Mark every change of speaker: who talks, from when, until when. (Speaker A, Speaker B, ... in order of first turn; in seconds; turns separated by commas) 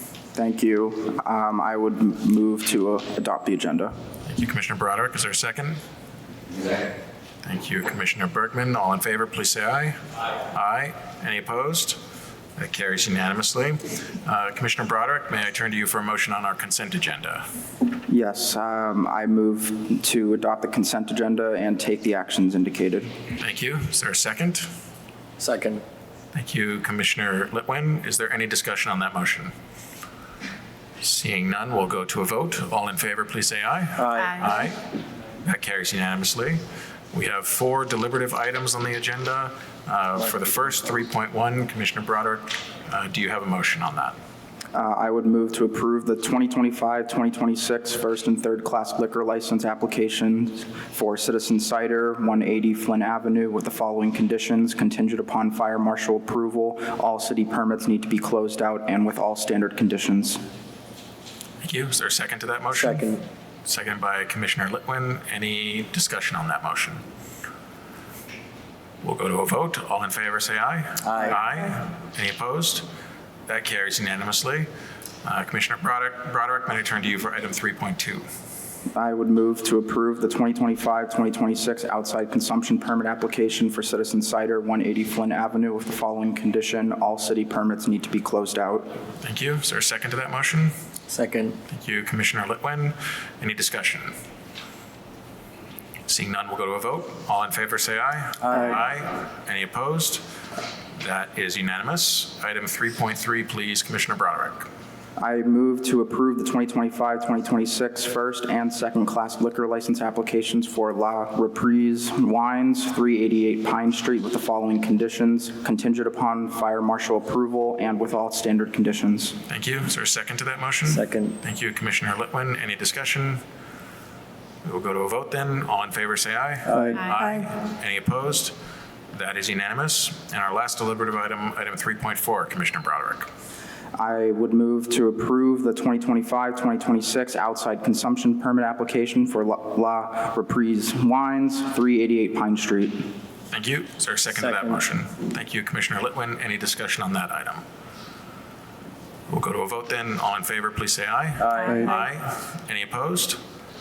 Speaker A: 0.3-3.9, Speaker B: 4.2-5.8, Speaker B: 7.4-12.0, Speaker B: 12.6-17.4, Speaker A: 18.1-23.1, Speaker B: 23.4-24.7, Speaker C: 25.4-25.8, Speaker B: 26.3-29.5, Speaker B: 31.0-34.8, Speaker C: 34.0-34.5, Speaker B: 35.4-36.6, Speaker B: 37.1-44.1, Speaker A: 44.7-60.4, Speaker B: 61.6-63.1, Speaker C: 62.8-63.2, Speaker B: 63.6-67.0, Speaker B: 69.0-72.8, Speaker C: 71.0-71.4, Speaker B: 73.5-74.7, Speaker B: 75.2-78.2, Speaker A: 78.9-88.9, Speaker B: 89.2-90.7, Speaker C: 91.1-91.5, Speaker B: 91.7-94.1, Speaker B: 96.1-100.2, Speaker C: 98.4-98.8, Speaker B: 101.0-104.7, Speaker A: 105.2-119.3, Speaker B: 119.5-123.4, Speaker C: 120.9-121.3, Speaker B: 124.6-128.5, Speaker B: 129.1-133.3, Speaker A: 133.9-143.1, Speaker B: 143.5-147.6, Speaker C: 144.4-144.8, Speaker B: 149.3-153.4, Speaker C: 151.4-151.8